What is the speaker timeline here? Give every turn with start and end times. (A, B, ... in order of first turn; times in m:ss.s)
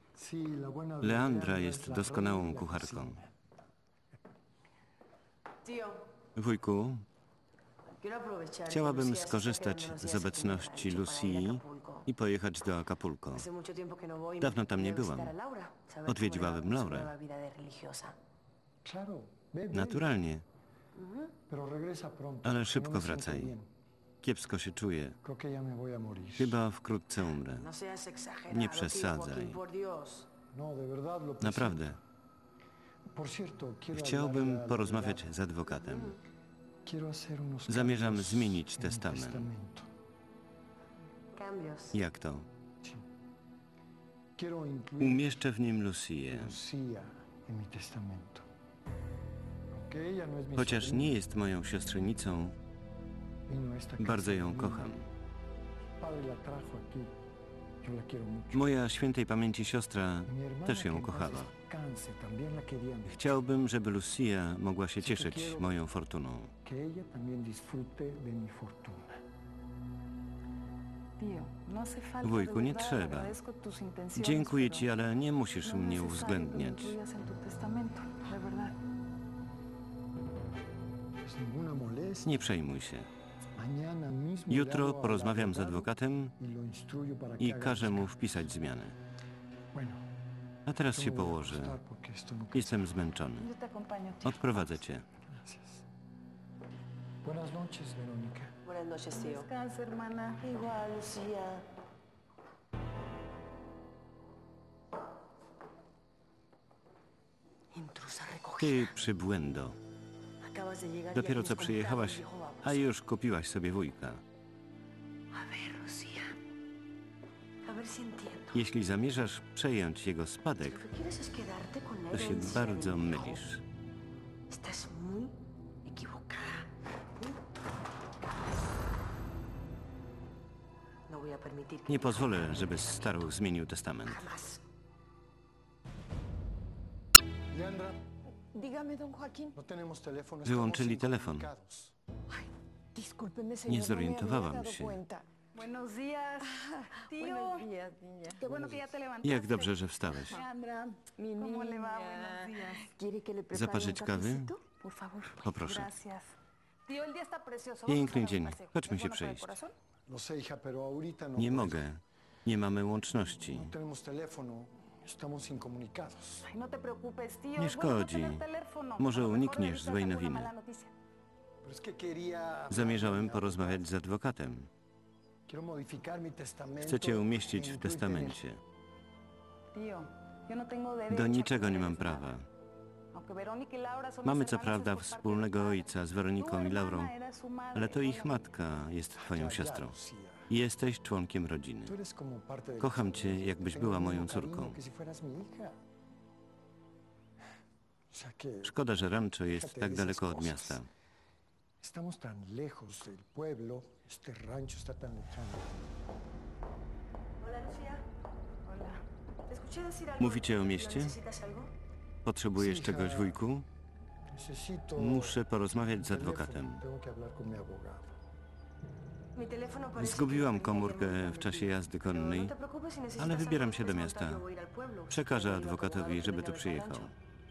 0:00.2-0:03.3 A
0:01.0-0:03.2 B
0:05.6-0:06.1 C
0:06.4-0:07.0 B
0:08.0-0:12.1 C
0:08.7-0:13.5 B
0:13.3-0:18.2 C
0:14.4-0:15.4 B
0:16.1-0:17.1 B
0:18.8-0:20.2 A
0:19.7-0:20.4 B
0:21.0-0:21.4 C
0:21.5-0:23.7 A
0:22.4-0:23.6 B
0:24.2-0:25.2 B
0:25.2-0:26.6 A
0:26.4-0:27.7 B
0:27.5-0:30.3 C
0:28.5-0:29.6 B
0:30.5-0:32.0 A
0:31.4-0:32.0 B
0:33.1-0:35.3 A
0:33.9-0:36.2 B
0:35.7-0:36.2 C
0:36.8-0:39.9 A
0:37.7-0:39.5 B
0:41.3-0:42.0 C
0:41.9-0:42.5 B
0:44.4-0:45.5 A
0:45.0-0:46.5 B
0:46.3-0:48.5 A
0:49.7-0:51.2 A
0:50.6-0:52.6 B
0:53.5-0:55.1 A
0:54.0-0:55.1 B
0:56.0-0:57.2 A
0:57.8-0:58.8 A
0:58.5-1:01.5 B
1:00.3-1:03.2 A
1:03.1-1:06.5 B
1:05.0-1:05.8 A
1:06.6-1:09.2 A
1:11.2-1:14.9 D
1:12.2-1:13.4 B
1:14.2-1:17.0 B
1:15.6-1:18.8 D
1:21.2-1:22.4 A
1:22.2-1:23.1 B
1:23.5-1:28.2 A
1:24.5-1:26.3 B
1:27.4-1:29.0 B
1:29.7-1:30.0 A
1:30.7-1:31.8 B
1:30.9-1:32.9 A
1:32.5-1:33.5 B
1:33.3-1:34.7 D
1:34.2-1:35.0 B
1:35.3-1:35.8 A
1:37.2-1:38.5 A
1:38.6-1:39.5 C
1:39.1-1:40.4 D
1:40.4-1:41.7 C
1:47.7-1:49.0 C
1:48.6-1:49.8 B
1:50.4-1:52.8 C
1:51.1-1:54.2 B
1:55.3-1:56.4 C
1:57.6-1:58.6 C
1:58.5-2:00.8 B
2:00.7-2:03.4 C
2:02.1-2:03.6 B
2:04.5-2:06.7 C
2:11.1-2:13.0 C
2:11.9-2:14.2 B
2:14.0-2:14.6 C
2:17.5-2:18.0 A
2:18.5-2:19.5 E
2:19.5-2:22.0 A
2:20.4-2:21.5 B
2:23.0-2:25.2 C
2:23.0-2:25.2 E
2:23.7-2:25.0 B
2:25.5-2:27.7 D
2:27.2-2:28.4 E
2:27.4-2:28.5 C
2:28.4-2:32.9 D
2:28.5-2:28.8 A
2:29.2-2:30.4 B
2:31.2-2:32.3 E
2:31.3-2:35.3 C
2:33.0-2:35.3 E
2:33.5-2:34.5 B
2:35.3-2:36.3 D
2:35.4-2:35.9 B
2:36.9-2:39.7 D
2:37.9-2:39.5 B
2:40.1-2:41.9 A
2:41.4-2:43.7 B
2:43.5-2:46.5 A
2:46.4-2:50.9 D
2:47.6-2:48.4 B
2:49.0-2:50.5 B
2:51.6-2:53.9 A
2:52.7-2:54.7 B
2:55.5-2:58.4 A
2:56.8-2:58.6 B
2:59.7-3:02.3 D
3:01.1-3:02.5 B
3:03.1-3:08.4 D
3:04.2-3:07.1 B
3:07.7-3:09.9 B
3:09.2-3:10.5 A
3:10.5-3:11.9 B
3:11.8-3:15.8 A
3:12.8-3:14.8 B
3:18.1-3:18.8 A
3:18.6-3:20.9 B
3:19.5-3:20.8 A
3:21.8-3:25.8 A
3:27.4-3:28.0 C
3:28.7-3:29.0 D
3:29.5-3:31.7 C
3:30.2-3:31.2 B
3:32.2-3:33.7 B
3:32.6-3:33.4 A
3:34.3-3:35.4 A
3:35.0-3:36.8 B
3:36.0-3:38.1 A
3:39.4-3:47.1 C
3:40.0-3:42.5 B
3:43.2-3:44.4 B
3:45.1-3:47.1 B